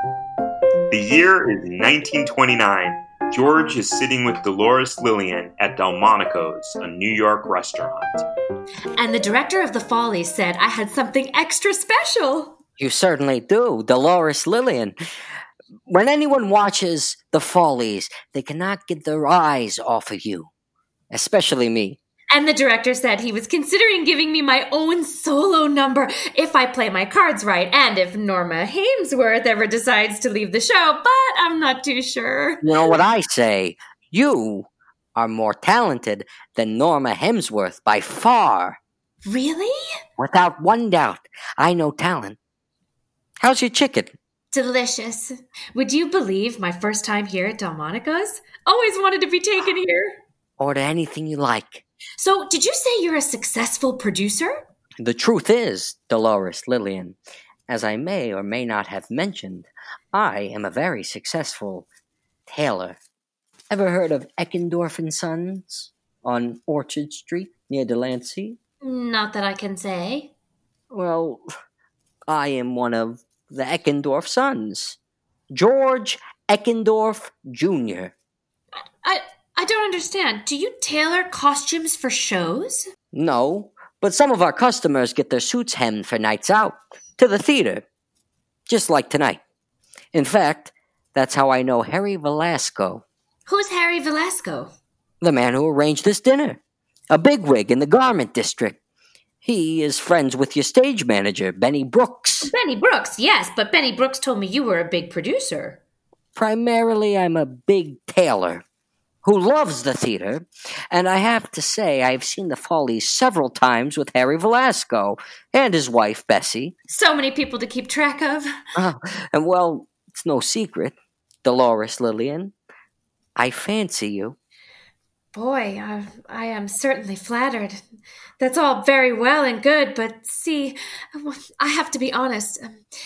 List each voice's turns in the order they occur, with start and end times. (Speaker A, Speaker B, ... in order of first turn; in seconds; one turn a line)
Speaker A: 0.9-8.2
Speaker B: 9.0-12.6
Speaker C: 12.8-14.9
Speaker C: 15.9-20.5
Speaker C: 21.1-22.0
Speaker B: 22.3-33.0
Speaker C: 32.6-38.8
Speaker B: 39.2-39.7
Speaker C: 40.2-42.4
Speaker C: 43.4-44.1
Speaker B: 44.5-50.2
Speaker C: 50.6-51.8
Speaker B: 52.2-54.6
Speaker C: 55.0-57.2
Speaker C: 57.7-61.9
Speaker C: 62.5-63.0
Speaker C: 63.7-68.6
Speaker B: 68.8-70.3
Speaker C: 70.9-71.4
Speaker C: 72.3-75.0
Speaker C: 75.5-78.1
Speaker B: 79.0-82.8
Speaker C: 83.1-87.8
Speaker C: 88.7-89.4
Speaker C: 90.1-93.0
Speaker B: 93.5-94.7
Speaker C: 95.2-96.6
Speaker C: 97.1-98.8
Speaker C: 99.4-102.5
Speaker B: 102.4-105.8
Speaker C: 106.3-108.6
Speaker C: 109.2-116.7
Speaker B: 116.9-118.5
Speaker C: 118.8-122.5
Speaker C: 123.3-124.3
Speaker B: 125.3-127.8
Speaker B: 128.4-132.8